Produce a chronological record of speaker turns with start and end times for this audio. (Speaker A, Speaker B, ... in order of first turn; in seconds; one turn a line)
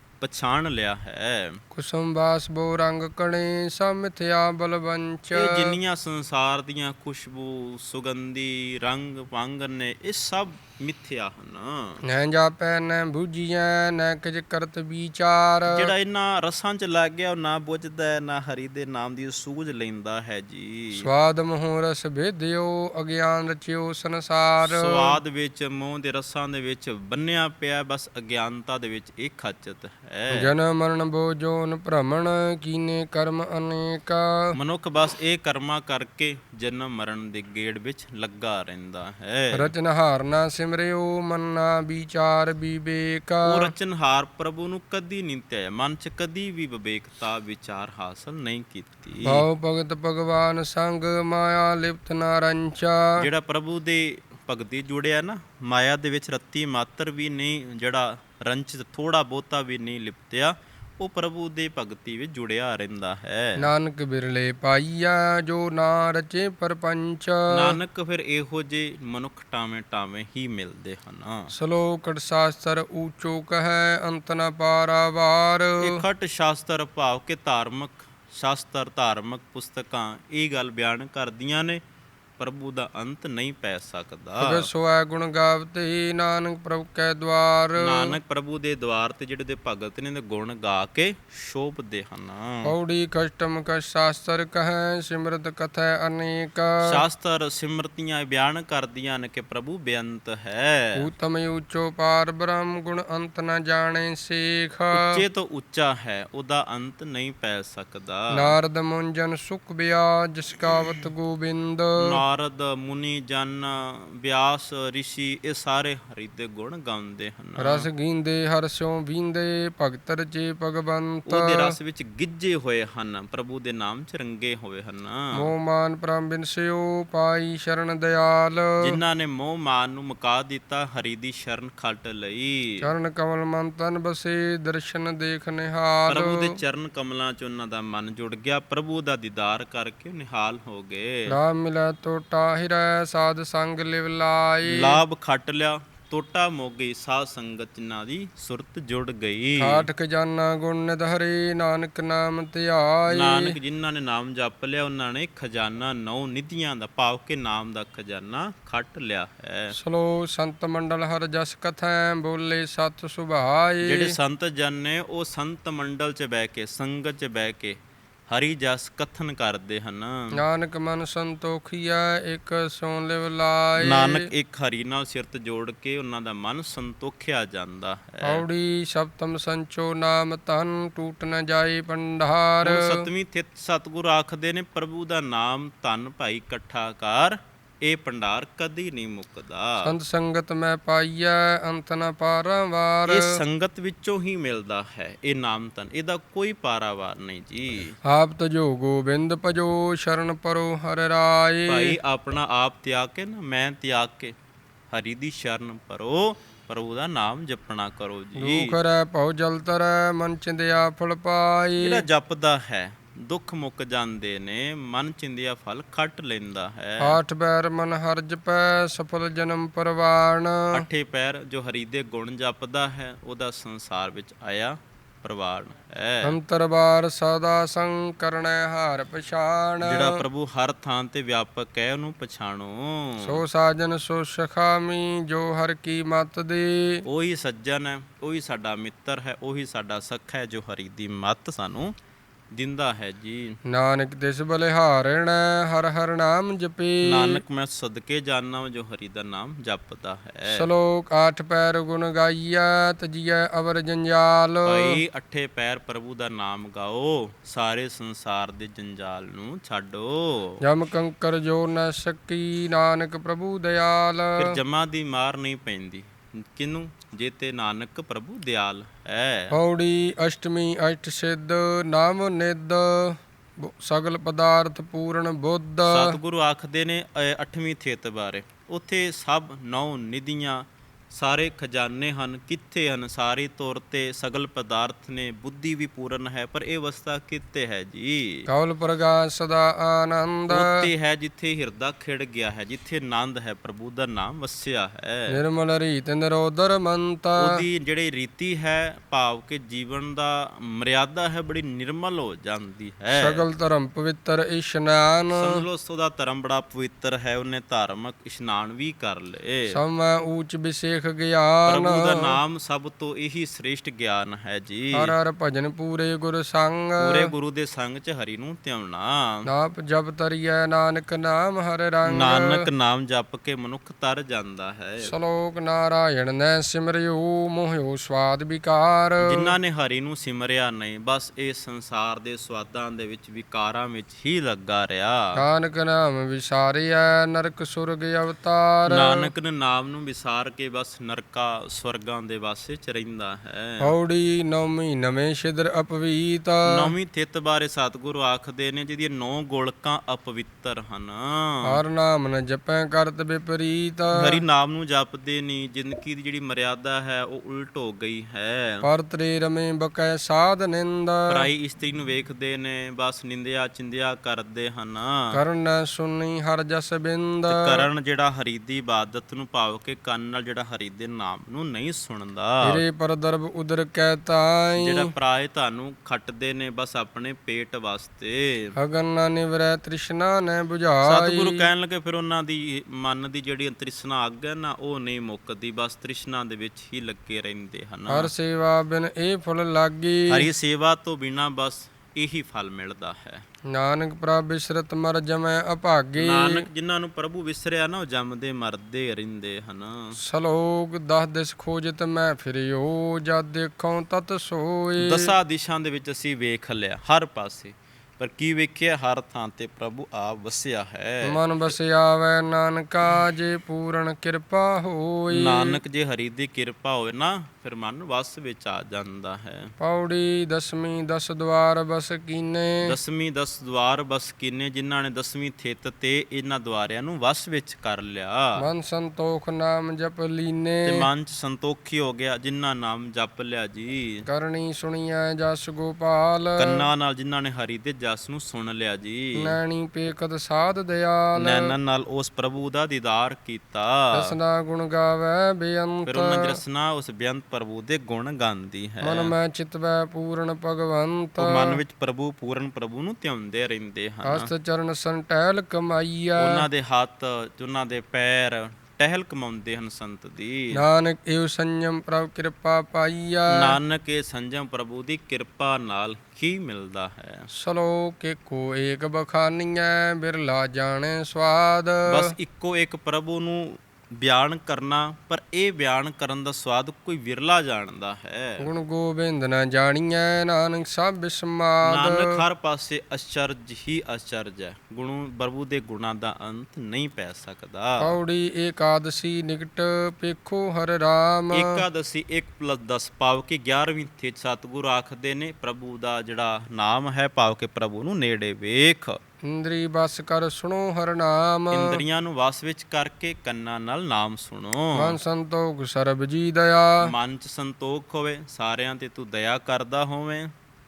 Speaker A: 0.2-1.6
Speaker B: 1.7-5.8
Speaker A: 5.3-12.0
Speaker B: 12.0-15.9
Speaker A: 15.7-21.1
Speaker B: 20.9-25.2
Speaker A: 24.6-30.5
Speaker B: 30.3-34.5
Speaker A: 34.5-39.7
Speaker B: 39.5-43.7
Speaker A: 43.5-49.5
Speaker B: 49.2-53.2
Speaker A: 53.2-63.7
Speaker B: 63.6-67.8
Speaker A: 67.5-71.5
Speaker B: 71.5-76.0
Speaker A: 75.8-81.8
Speaker A: 82.4-84.7
Speaker B: 84.4-88.2
Speaker A: 87.8-92.7
Speaker B: 92.6-97.0
Speaker A: 96.8-101.1
Speaker B: 101.0-105.2
Speaker A: 104.9-108.6
Speaker B: 108.3-112.1
Speaker A: 112.0-117.9
Speaker B: 117.6-121.7
Speaker A: 121.3-125.5
Speaker B: 125.3-128.9
Speaker A: 128.8-132.9
Speaker B: 132.8-136.6
Speaker A: 136.1-141.3
Speaker B: 141.3-145.0
Speaker A: 144.6-149.9
Speaker B: 149.6-153.6
Speaker A: 153.1-159.8
Speaker B: 159.7-164.2
Speaker A: 163.8-167.8
Speaker A: 168.3-170.4
Speaker B: 170.3-174.3
Speaker A: 173.8-178.4
Speaker B: 178.2-183.1
Speaker A: 182.6-189.9
Speaker B: 189.8-193.4
Speaker A: 193.1-197.9
Speaker B: 198.0-201.9
Speaker A: 201.7-204.3
Speaker A: 204.9-208.8
Speaker B: 208.4-212.0
Speaker A: 211.8-217.2
Speaker B: 217.0-220.8
Speaker A: 220.7-226.4
Speaker B: 226.2-230.2
Speaker A: 229.8-233.4
Speaker B: 233.2-237.0
Speaker A: 237.0-241.9
Speaker A: 242.5-243.6
Speaker B: 243.7-247.4
Speaker A: 247.0-250.7
Speaker B: 250.5-255.0
Speaker A: 254.7-260.6
Speaker B: 260.6-264.6
Speaker A: 264.4-269.5
Speaker B: 269.5-276.2
Speaker A: 275.9-288.4
Speaker B: 288.5-290.9
Speaker A: 290.5-295.4
Speaker B: 295.3-297.6
Speaker A: 297.4-303.5
Speaker B: 303.1-305.6
Speaker A: 305.3-309.8
Speaker B: 309.7-312.4
Speaker A: 311.7-315.1
Speaker B: 314.9-317.3
Speaker A: 317.0-319.5
Speaker B: 319.4-322.6
Speaker A: 322.0-325.1
Speaker B: 325.0-329.5
Speaker A: 329.2-335.4
Speaker B: 335.4-339.3
Speaker A: 338.9-343.9
Speaker B: 343.8-346.9
Speaker A: 346.7-351.8
Speaker B: 351.6-354.4
Speaker A: 354.1-358.8
Speaker B: 358.8-361.5
Speaker A: 361.3-365.3
Speaker B: 365.3-367.9
Speaker A: 367.5-372.8
Speaker B: 372.6-375.1
Speaker A: 374.8-378.7
Speaker B: 378.8-381.7
Speaker A: 381.0-388.3
Speaker B: 388.1-390.5
Speaker A: 390.3-393.4
Speaker B: 393.7-396.6
Speaker A: 396.2-400.1
Speaker B: 400.2-405.3
Speaker A: 405.0-411.4
Speaker B: 411.2-415.8
Speaker A: 415.3-419.7
Speaker B: 419.8-422.9
Speaker A: 422.8-428.6
Speaker B: 428.6-431.1
Speaker A: 430.8-434.2
Speaker B: 434.3-436.9
Speaker A: 436.6-439.6
Speaker B: 439.4-441.7
Speaker A: 441.4-444.4
Speaker B: 444.1-446.6
Speaker A: 446.1-449.3
Speaker B: 449.0-451.8
Speaker A: 451.4-454.5
Speaker B: 454.2-456.6
Speaker A: 456.4-460.8
Speaker B: 460.7-463.8
Speaker A: 463.5-467.5
Speaker B: 467.5-472.3
Speaker A: 472.1-478.6
Speaker B: 478.6-482.4
Speaker A: 481.8-488.1
Speaker B: 488.0-491.8
Speaker A: 491.5-499.2
Speaker B: 499.4-502.0
Speaker A: 501.7-505.2
Speaker B: 504.9-507.1
Speaker A: 507.0-510.5